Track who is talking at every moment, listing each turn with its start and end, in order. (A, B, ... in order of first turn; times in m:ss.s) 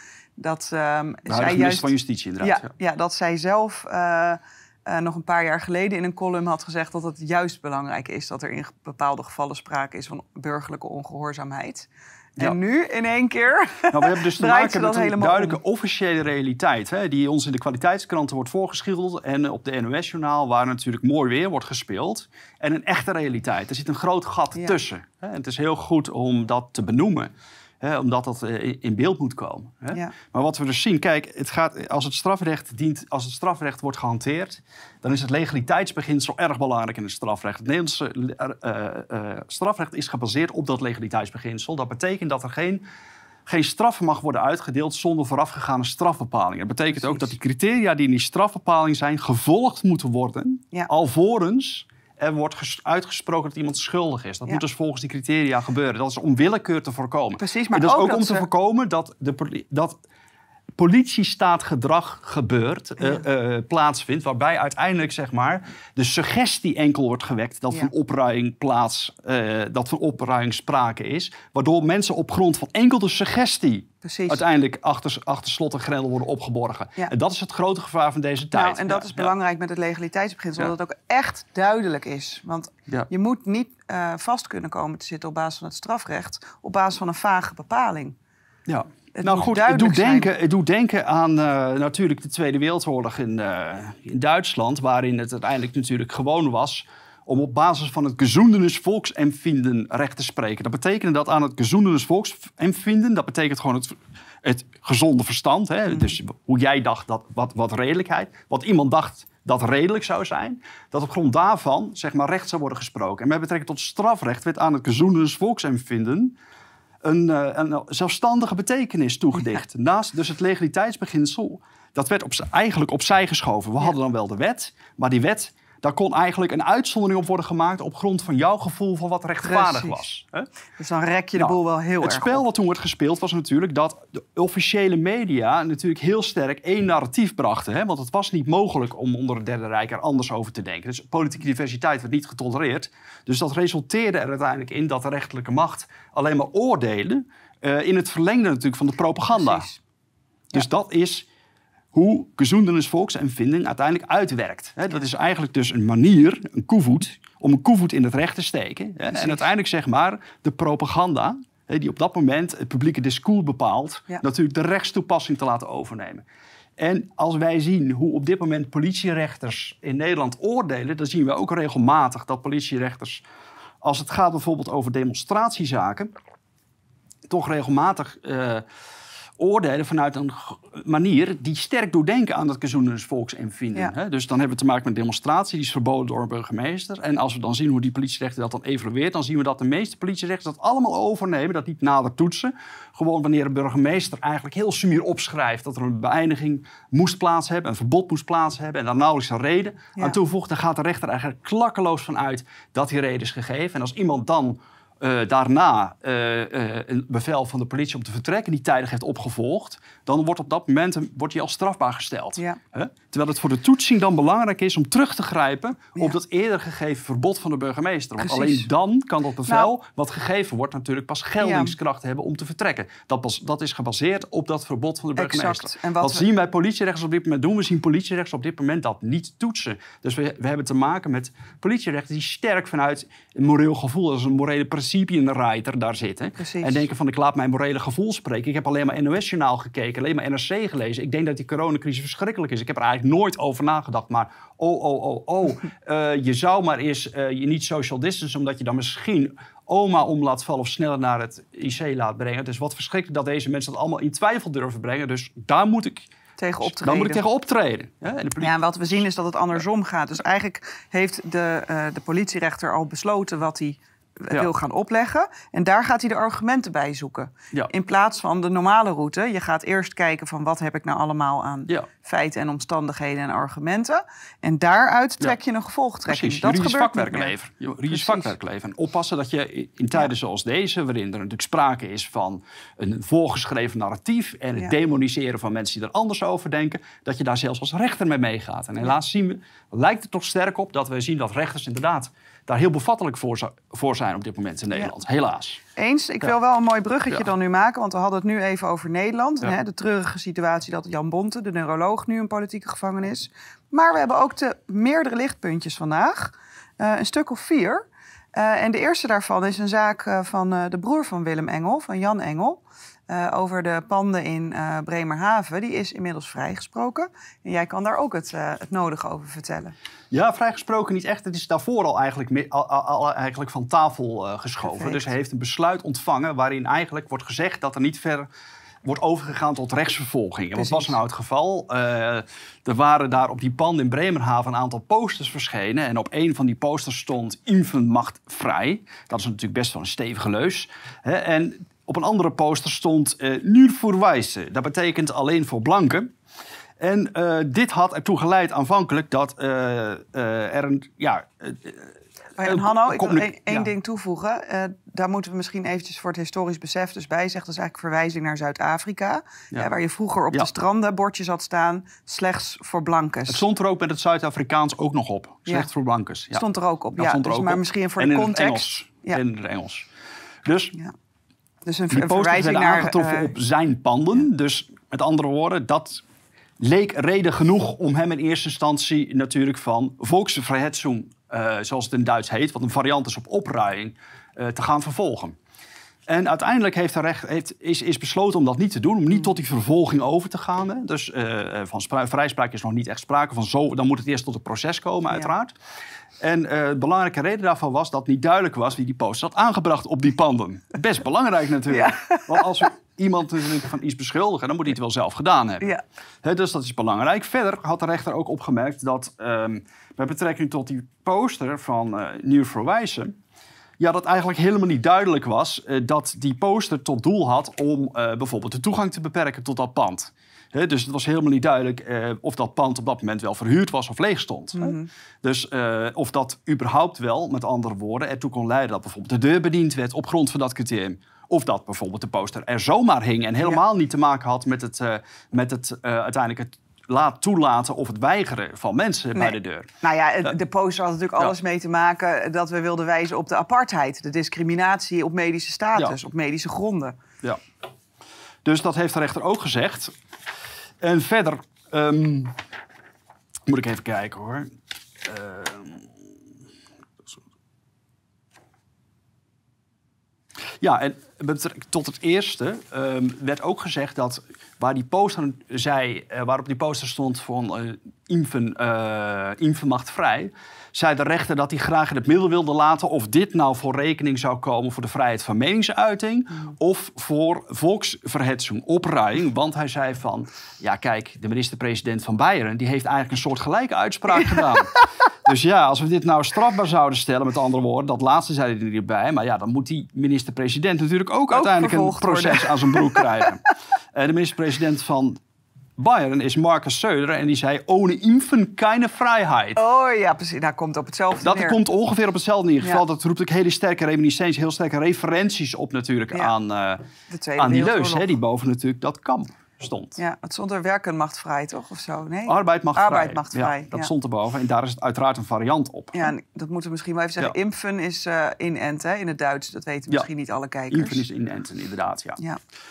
0:00.4-0:15.6 A
0:01.3-0:02.6 B
0:13.9-0:42.8 B
0:43.4-1:00.0 B
0:57.4-0:58.4 A
1:00.8-1:19.3 B
1:14.0-1:14.4 A
1:18.5-1:28.2 A
1:28.7-1:56.4 B
1:29.1-1:30.3 A
1:57.0-2:10.5 B
2:09.4-2:10.0 A
2:10.8-2:12.4 A
2:11.4-2:29.7 B
2:29.4-2:29.8 A
2:30.5-2:31.3 B
2:31.9-2:46.2 B
2:39.1-2:39.4 A
2:46.8-2:53.2 B
2:53.8-2:56.1 B
2:57.3-2:58.6 B
2:59.4-4:16.1 B
3:38.2-3:38.7 A
3:41.4-3:41.7 A
3:45.2-3:46.2 A
3:56.4-3:56.8 A
4:16.4-4:17.2 A
4:16.6-4:18.5 B
4:18.4-4:37.3 A
4:36.0-4:55.6 B
4:37.9-4:38.3 A
4:55.8-5:19.7 A
5:20.1-5:28.3 B
5:24.6-5:25.0 A
5:28.8-5:46.1 B
5:30.6-5:30.9 A
5:46.8-5:53.7 B
5:52.4-6:03.4 A
6:03.3-6:06.4 B
6:06.3-6:09.2 A
6:07.0-6:09.9 B
6:10.4-6:10.8 B
6:11.6-6:13.3 A
6:11.9-6:16.0 B
6:16.6-6:25.4 B
6:26.1-6:35.5 B
6:36.2-6:53.1 B
6:41.7-6:42.5 A
6:53.8-7:19.7 B
7:04.5-7:04.9 A
7:19.1-7:27.0 A
7:28.4-7:29.9 B
7:30.8-7:32.3 B
7:33.5-7:35.9 B
7:40.6-8:15.2 B
8:11.3-8:13.1 A
8:15.8-8:19.6 B
8:19.6-8:21.6 A
8:21.2-8:26.8 B
8:27.1-8:28.1 A
8:27.4-8:30.0 B
8:30.0-8:33.9 A
8:32.3-8:36.1 B
8:35.9-8:41.0 A
8:40.7-8:42.2 B